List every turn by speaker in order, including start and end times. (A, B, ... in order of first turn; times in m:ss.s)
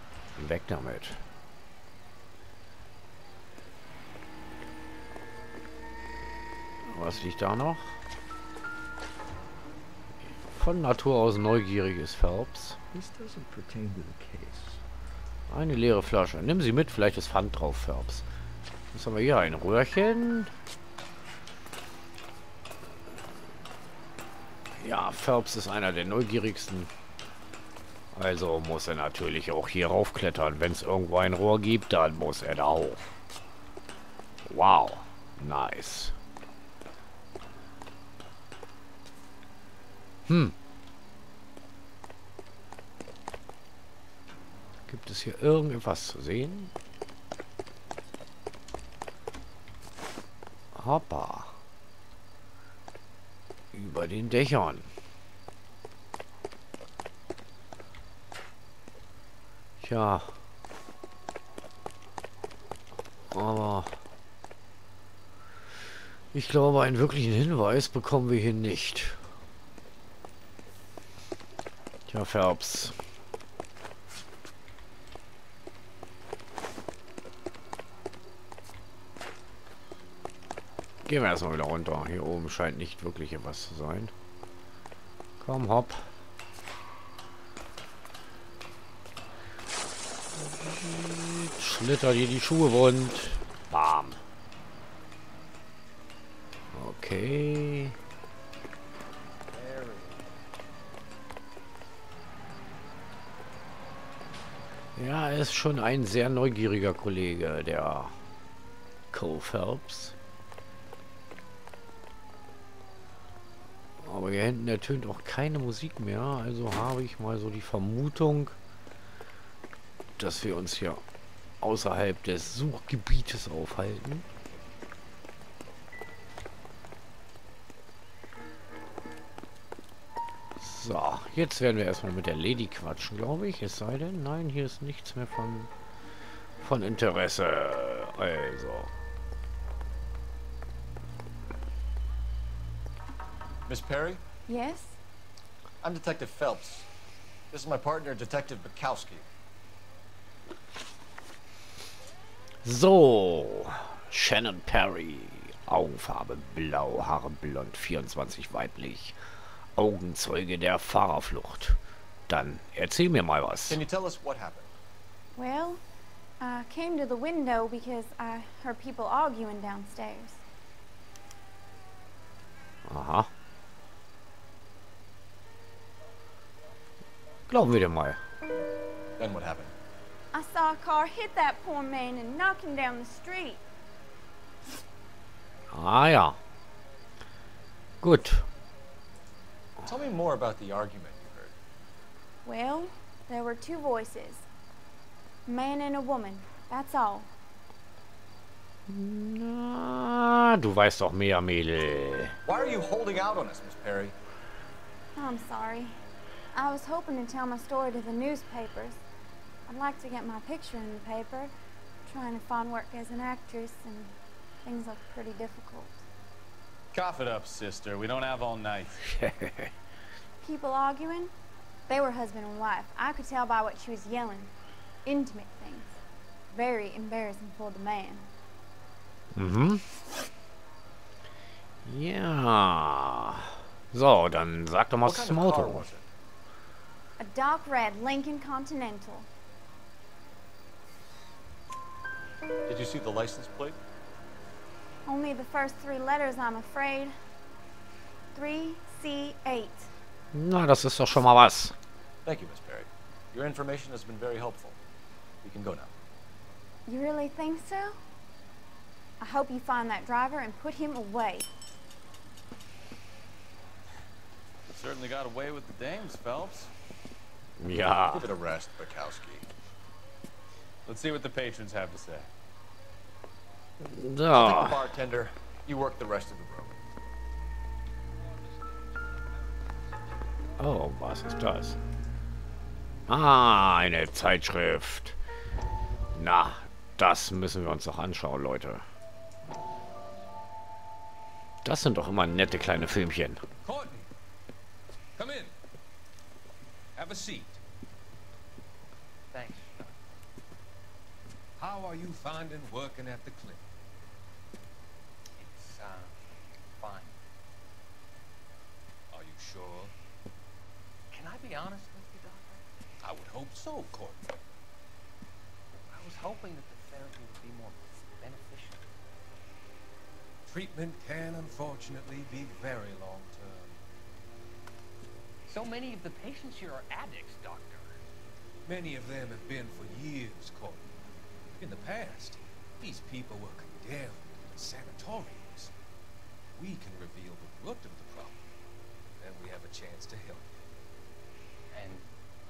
0:00.4-0:01.2 A
0:06.8-0:08.0 A
0:10.5-0:12.8 A
0:15.5-0:18.2 A
0:18.9-0:20.5 A
0:24.7-0:26.9 A
0:28.1-0:33.2 A
0:34.4-0:36.2 A
0:40.3-0:40.6 A
0:44.9-0:46.7 A
0:50.7-0:51.6 A
0:53.7-0:54.9 A
0:59.8-1:00.3 A
1:03.3-1:04.0 A
1:06.3-1:09.2 A
1:12.1-1:13.0 A
1:21.0-1:24.1 A
1:25.4-1:26.1 A
1:30.3-1:34.2 A
1:36.7-1:38.0 A
1:45.0-1:48.2 A
1:49.1-1:50.2 A
1:54.0-1:58.6 A
2:00.2-2:01.0 A
2:01.6-2:04.3 A
2:10.6-2:15.7 A
2:16.6-2:18.9 A
2:23.7-2:24.2 B
2:24.5-2:25.0 C
2:25.8-2:26.9 B
2:27.5-2:29.3 B
2:32.6-2:39.2 A
2:39.8-2:43.8 A
2:43.7-2:44.7 B
2:45.4-2:45.8 C
2:46.4-2:50.4 C
2:52.9-2:53.3 A
2:57.5-2:58.2 A
2:59.2-2:59.7 B
3:00.3-3:03.6 C
3:05.7-3:06.4 A
3:08.0-3:08.5 A
3:09.8-3:11.5 B
3:12.4-3:14.5 C
3:15.5-3:17.3 C
3:18.9-3:22.4 A
3:22.4-3:24.2 B
3:25.2-3:26.0 C
3:26.5-3:29.0 C
3:29.7-3:31.5 C
3:32.0-3:34.1 C
3:34.6-3:36.0 C
3:36.9-3:39.0 D
3:39.0-3:39.7 A
3:40.4-3:41.3 C
3:41.9-3:44.5 C
3:45.0-3:46.0 C
3:46.5-3:48.3 C
3:49.4-3:49.8 A
3:51.8-3:55.9 A
3:55.0-3:56.1 B
3:57.2-3:59.3 C
4:02.7-4:03.8 B
4:05.1-4:07.2 C
4:08.3-4:09.9 C
4:10.3-4:11.7 A
4:12.2-4:14.8 B
4:15.4-4:15.9 B
4:16.9-4:18.0 C
4:19.2-4:21.5 C
4:24.7-4:26.7 D
4:27.6-4:28.3 A
4:28.1-4:29.4 B
4:30.9-4:32.3 D
4:33.8-4:34.8 A
4:34.3-4:36.8 B
4:40.6-4:41.8 A
4:43.1-4:45.2 A
4:46.1-4:48.8 A
4:51.6-4:53.4 A
4:53.6-4:54.1 E
4:55.2-4:55.5 E
4:57.0-4:57.6 E
4:59.3-5:00.0 F
5:01.6-5:03.7 E
5:05.4-5:06.2 F
5:06.8-5:07.2 F
5:09.1-5:09.9 E
5:11.1-5:12.6 F
5:13.0-5:14.3 E
5:15.9-5:18.9 F
5:20.5-5:23.8 E
5:25.5-5:28.0 F
5:28.7-5:30.9 E
5:31.6-5:35.7 E
5:36.5-5:38.4 E
5:39.2-5:40.7 E
5:41.7-5:42.1 F